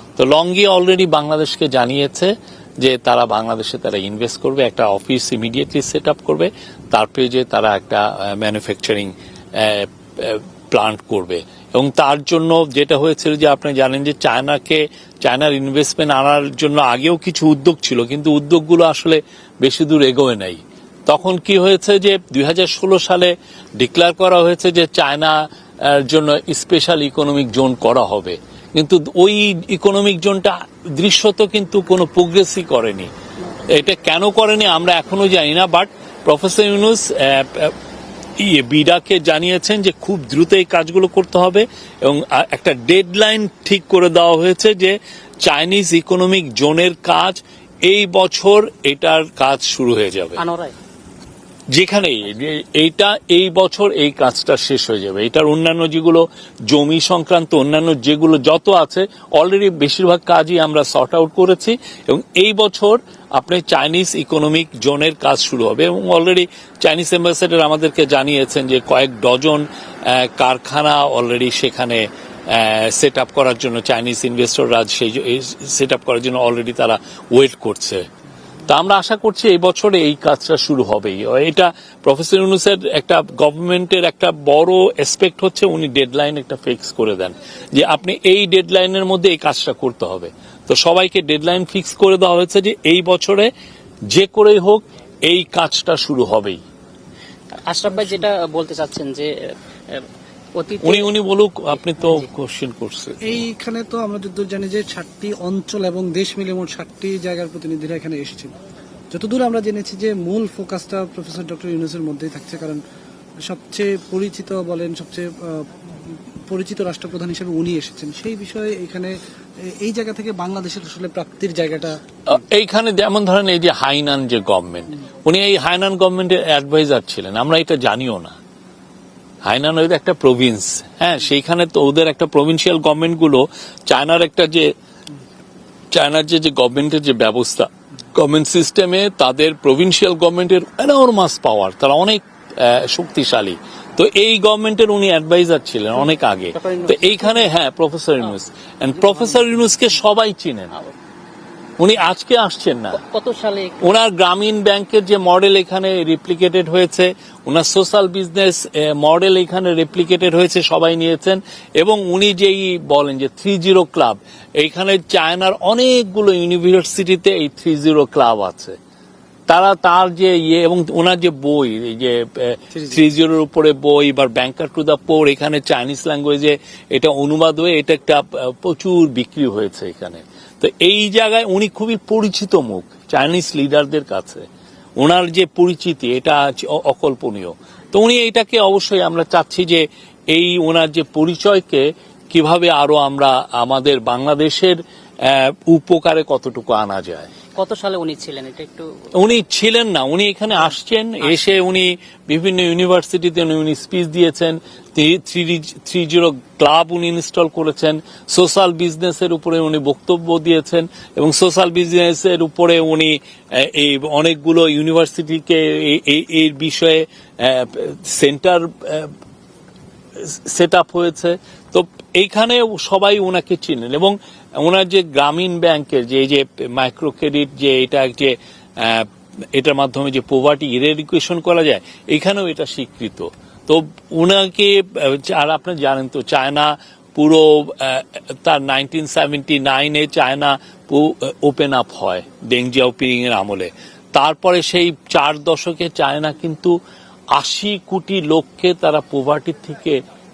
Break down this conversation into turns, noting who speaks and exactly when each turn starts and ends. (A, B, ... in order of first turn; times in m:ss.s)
0:00.2-0:33.1 A
0:33.7-0:37.7 A
0:38.4-0:50.4 A
0:50.4-0:50.7 B
0:51.7-1:18.0 A
1:18.6-1:33.5 A
1:34.1-1:36.6 A
1:37.7-1:41.1 B
1:40.8-1:43.4 A
1:41.7-1:42.2 B
1:43.2-1:48.5 C
1:49.1-1:52.8 C
1:53.4-2:02.4 C
2:02.3-2:08.4 A
2:09.4-2:14.7 A
2:15.9-2:30.8 A
2:26.5-2:27.5 B
2:29.2-2:29.5 B
2:31.8-2:33.0 A
2:33.0-2:33.8 B
2:33.8-2:48.8 A
2:49.5-3:04.4 A
3:05.0-3:17.3 A
3:17.6-3:18.9 B
3:19.1-3:39.1 A
3:40.2-4:06.8 A
4:07.3-4:10.0 A